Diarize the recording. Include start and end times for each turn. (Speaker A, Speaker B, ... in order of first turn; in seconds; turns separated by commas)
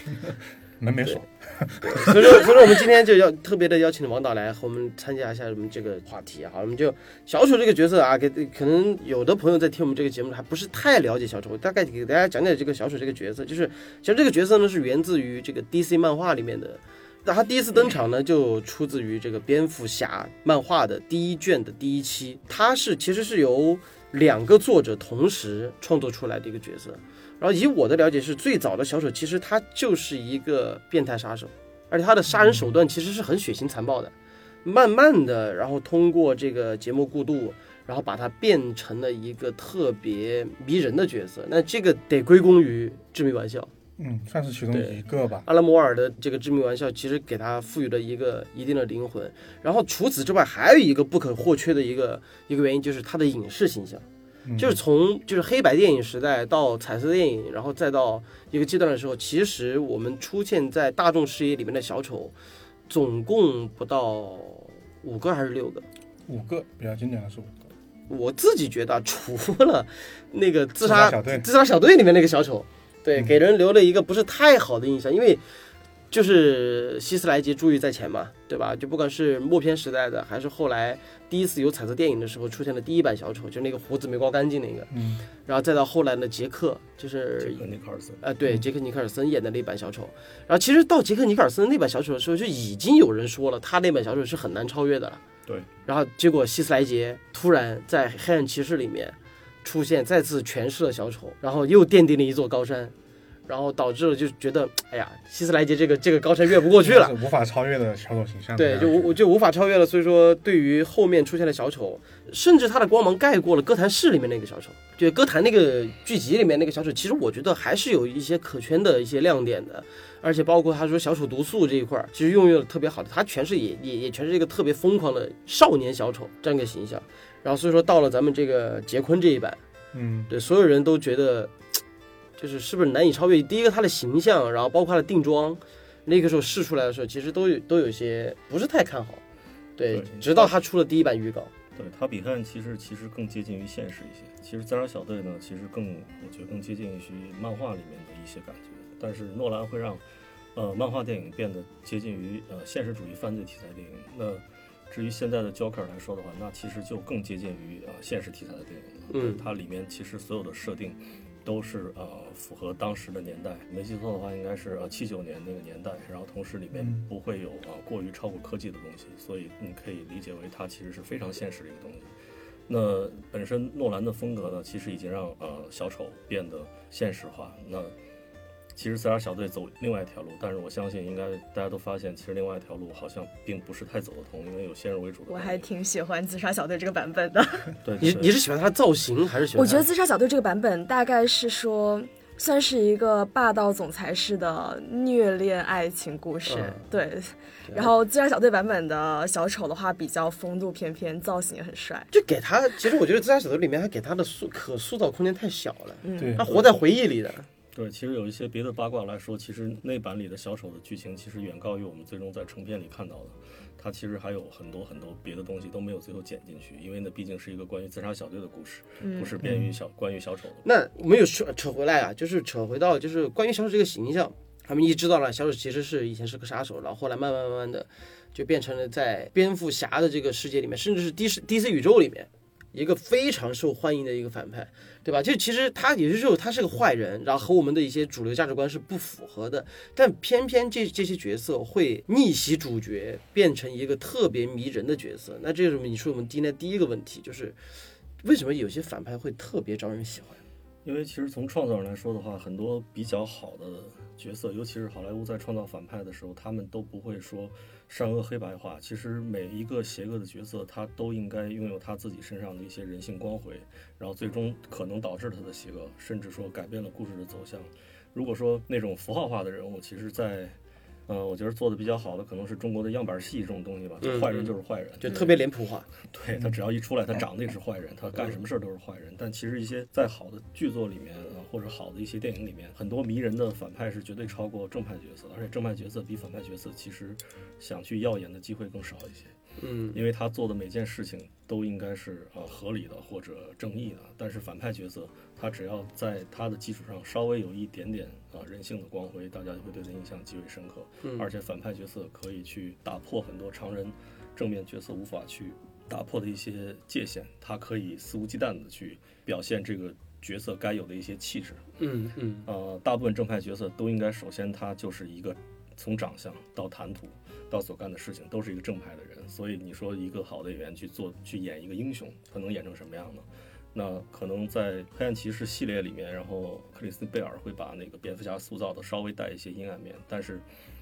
Speaker A: 0.8-2.5, Speaker B: 1.8-34.1, Speaker B: 34.6-43.7, Speaker A: 44.0-45.5, Speaker B: 44.7-54.0, Speaker A: 54.5-54.8, Speaker B: 54.6-62.3, Speaker B: 62.9-65.8, Speaker A: 66.3-67.5, Speaker B: 68.1-75.4, Speaker A: 70.8-71.5, Speaker B: 76.1-84.9, Speaker A: 84.9-85.2, Speaker B: 85.5-87.6, Speaker C: 87.4-88.2, Speaker B: 88.2-95.2, Speaker B: 95.9-102.9, Speaker B: 103.5-107.2, Speaker A: 106.8-109.0, Speaker B: 108.6-129.6, Speaker A: 129.9-130.3, Speaker B: 130.3-131.5, Speaker B: 132.4-139.2, Speaker B: 139.8-141.5, Speaker C: 139.9-140.5, Speaker C: 141.8-150.0, Speaker C: 150.6-172.1, Speaker B: 159.1-159.4, Speaker A: 166.7-167.0, Speaker C: 172.7-177.9, Speaker C: 178.7-185.7, Speaker D: 185.3-187.7, Speaker C: 187.8-188.3, Speaker B: 188.0-189.8, Speaker D: 189.6-202.1, Speaker B: 196.5-196.8, Speaker B: 202.1-207.5, Speaker D: 206.0-206.4, Speaker A: 206.2-206.5, Speaker C: 206.5-206.8, Speaker C: 207.7-220.7, Speaker D: 219.0-219.3, Speaker A: 219.4-219.7, Speaker B: 220.7-247.6, Speaker B: 248.2-250.4, Speaker C: 250.8-270.6, Speaker C: 271.1-275.4, Speaker B: 274.0-274.5, Speaker B: 275.0-275.9, Speaker C: 276.0-289.4, Speaker B: 289.6-290.0, Speaker C: 289.9-311.6, Speaker B: 311.8-312.5, Speaker C: 312.5-330.4